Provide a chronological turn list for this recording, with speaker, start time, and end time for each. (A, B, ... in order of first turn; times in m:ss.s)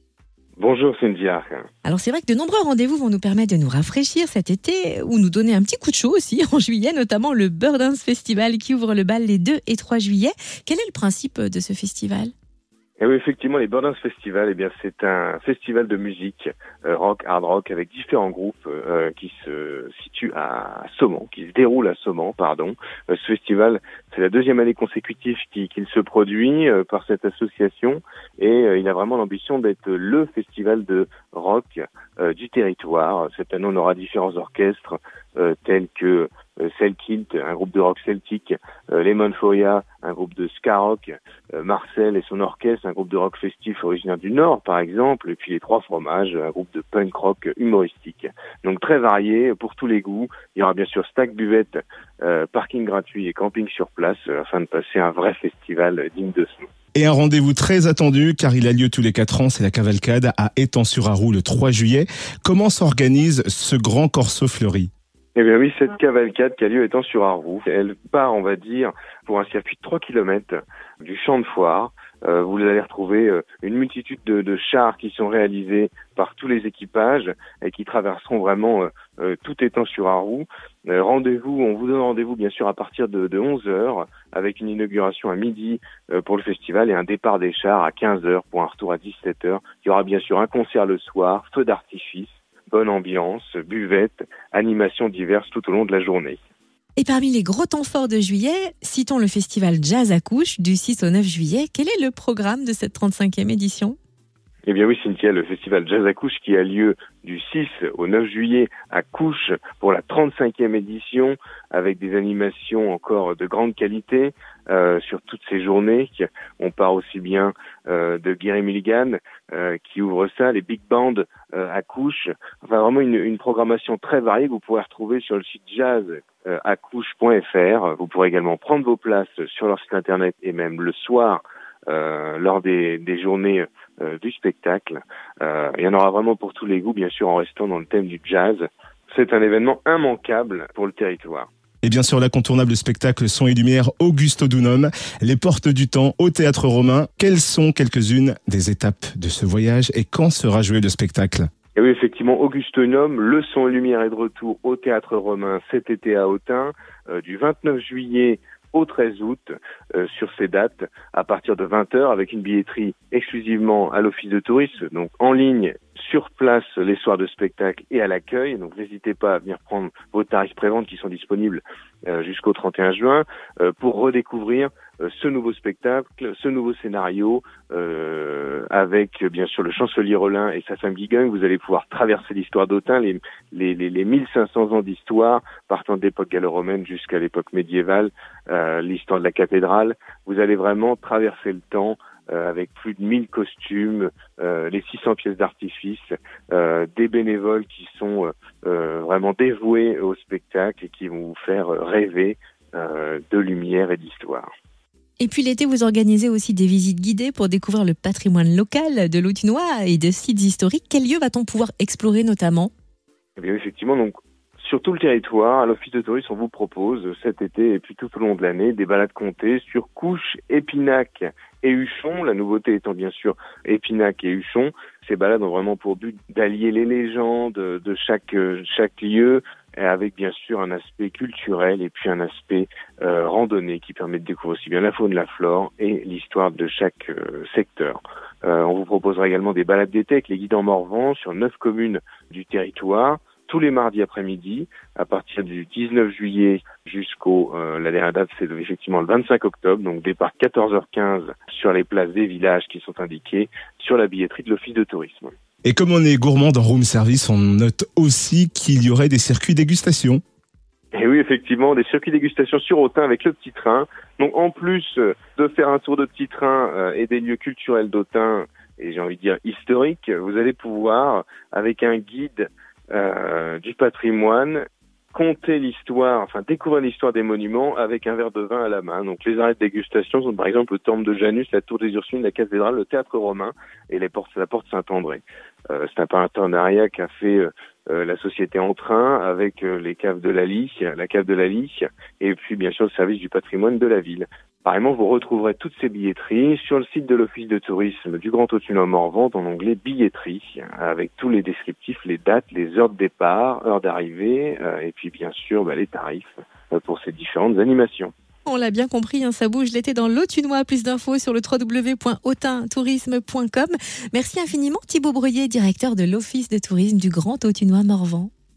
0:00.6-0:01.7 A
0:01.8-0:12.3 B
0:13.0-0:56.7 A
0:56.9-1:04.9 C
1:05.4-1:36.4 A
1:37.0-1:44.0 B
1:44.6-2:21.5 A
2:21.8-2:31.5 C
2:31.8-3:24.5 A
3:25.2-3:32.7 B
3:33.4-4:15.3 A
4:15.6-4:20.2 C
4:20.9-5:08.1 A
5:08.4-5:18.3 B